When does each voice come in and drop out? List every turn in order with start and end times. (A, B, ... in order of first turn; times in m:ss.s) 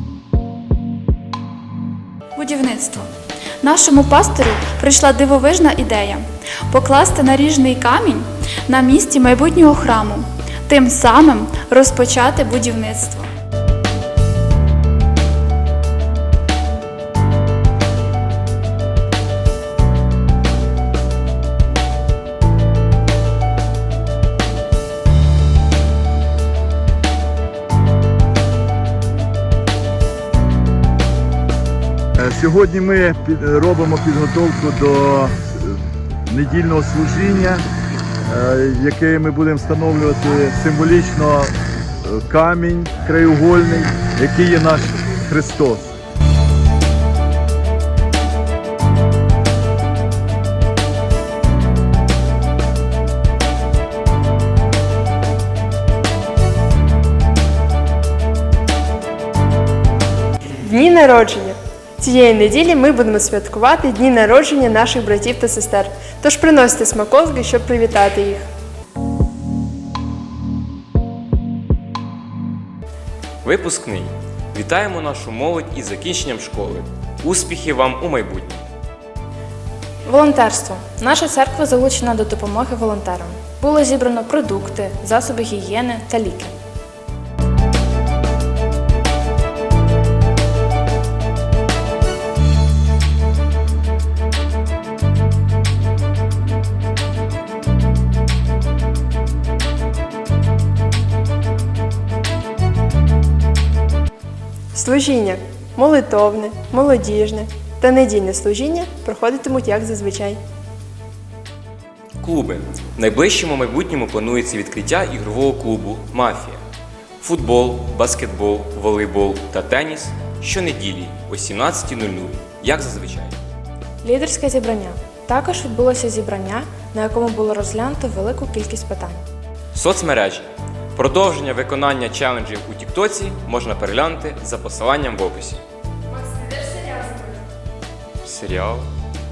0:02.4-0:03.1 A
0:03.6-0:13.3 A
0:32.2-0:37.6 B
0:38.3-0:41.5 B
0:42.0-0:45.9 B
1:00.6-1:08.4 C
1:13.4-1:18.6 D
1:20.1-1:26.5 E
1:44.7-1:50.4 C
1:52.2-1:56.6 D
1:57.2-2:03.3 D
2:04.0-2:09.2 E
2:09.7-2:15.6 D
2:16.1-2:17.4 C
2:18.2-2:18.9 D